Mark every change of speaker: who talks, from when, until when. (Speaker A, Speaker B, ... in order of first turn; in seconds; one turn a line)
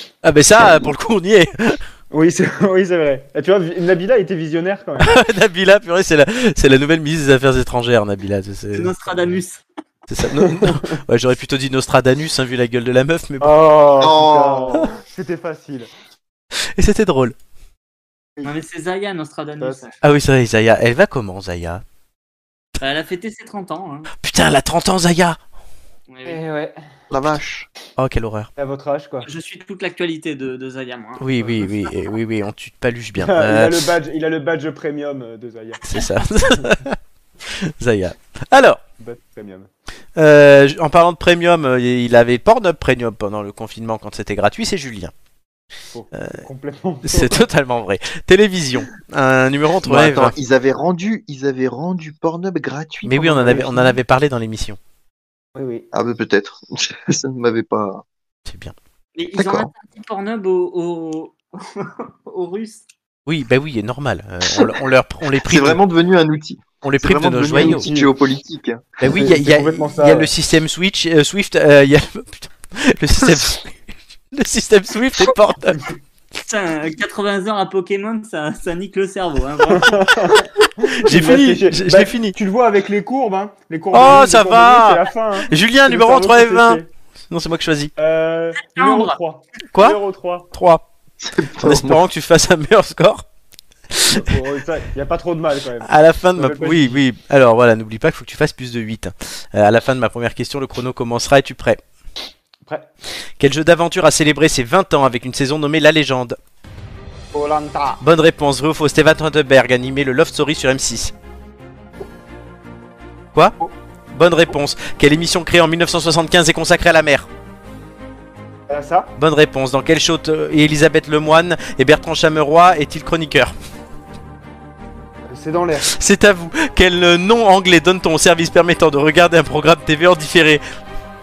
Speaker A: 0.2-1.8
Speaker B: 2.1-5.2
Speaker A: 5.0-8.9
Speaker C: 8.7-9.6
Speaker A: 10.1-13.6
Speaker B: 10.4-10.8
Speaker B: 13.4-15.9
Speaker D: 14.0-14.9
Speaker A: 16.7-17.4
Speaker C: 18.4-19.9
Speaker B: 19.6-19.8
Speaker A: 20.0-21.8
Speaker C: 22.8-24.1
Speaker A: 24.2-25.4
Speaker C: 26.1-26.4
Speaker B: 26.2-26.8
Speaker D: 27.1-27.7
Speaker A: 28.0-28.5
Speaker B: 28.6-29.3
Speaker C: 29.2-31.6
Speaker A: 31.2-33.9
Speaker B: 33.2-35.9
Speaker A: 35.8-38.8
Speaker B: 39.0-39.7
Speaker A: 40.2-45.1
Speaker B: 45.9-47.5
Speaker A: 46.1-46.4
Speaker A: 47.0-50.3
Speaker D: 49.8-53.4
Speaker A: 53.0-54.8
Speaker B: 53.2-54.0
Speaker B: 55.5-55.9
Speaker D: 55.9-58.0
Speaker A: 58.5-58.7
Speaker C: 59.1-62.8
Speaker D: 59.4-59.7
Speaker A: 63.2-65.8
Speaker D: 65.4-68.8
Speaker A: 66.8-67.9
Speaker B: 67.5-68.1
Speaker A: 69.0-75.9
Speaker B: 69.1-70.3
Speaker C: 76.4-80.1
Speaker B: 79.7-86.8
Speaker A: 81.0-82.3
Speaker A: 83.9-87.9
Speaker B: 88.0-90.5
Speaker C: 88.6-89.2
Speaker A: 89.7-90.0
Speaker A: 90.5-90.8
Speaker D: 91.2-92.0
Speaker A: 91.6-93.2
Speaker A: 93.9-94.2
Speaker B: 94.1-97.0
Speaker A: 95.8-101.8
Speaker A: 103.4-106.4
Speaker B: 107.3-108.0
Speaker A: 108.0-111.1
Speaker A: 114.1-117.3
Speaker B: 118.7-119.1
Speaker A: 119.2-123.5
Speaker B: 125.3-125.9
Speaker A: 125.9-130.6